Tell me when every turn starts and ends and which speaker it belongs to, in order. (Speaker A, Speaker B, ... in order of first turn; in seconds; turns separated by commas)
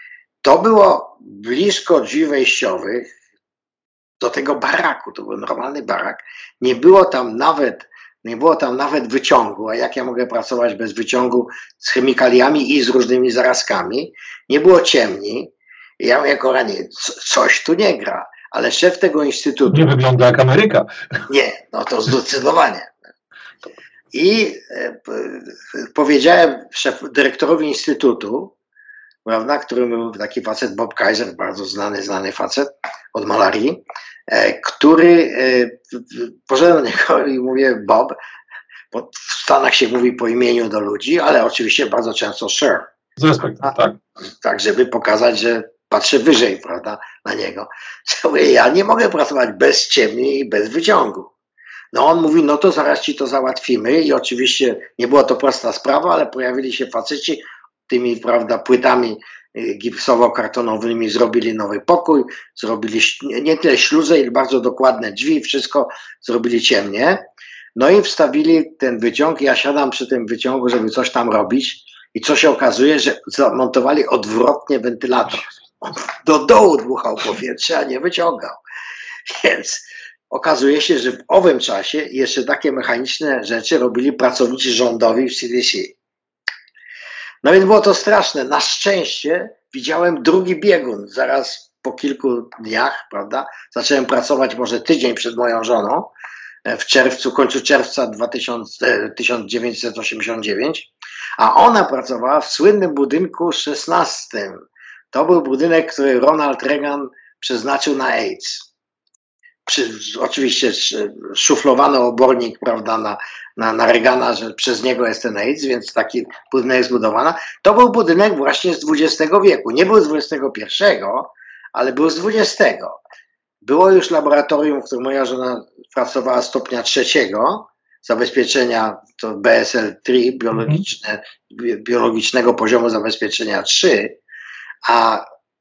Speaker A: 0.4-3.1, Speaker A: 4.2-19.9, Speaker B: 19.7-21.2, Speaker A: 21.3-23.0, Speaker A: 24.1-28.5, Speaker A: 29.2-38.1, Speaker A: 38.9-42.9, Speaker B: 43.2-44.0, Speaker A: 44.4-51.3, Speaker A: 51.9-78.6, Speaker A: 79.3-86.0, Speaker A: 87.4-96.1, Speaker A: 96.7-108.7, Speaker A: 109.7-123.0, Speaker A: 123.6-134.2, Speaker B: 130.5-130.8, Speaker A: 134.8-135.2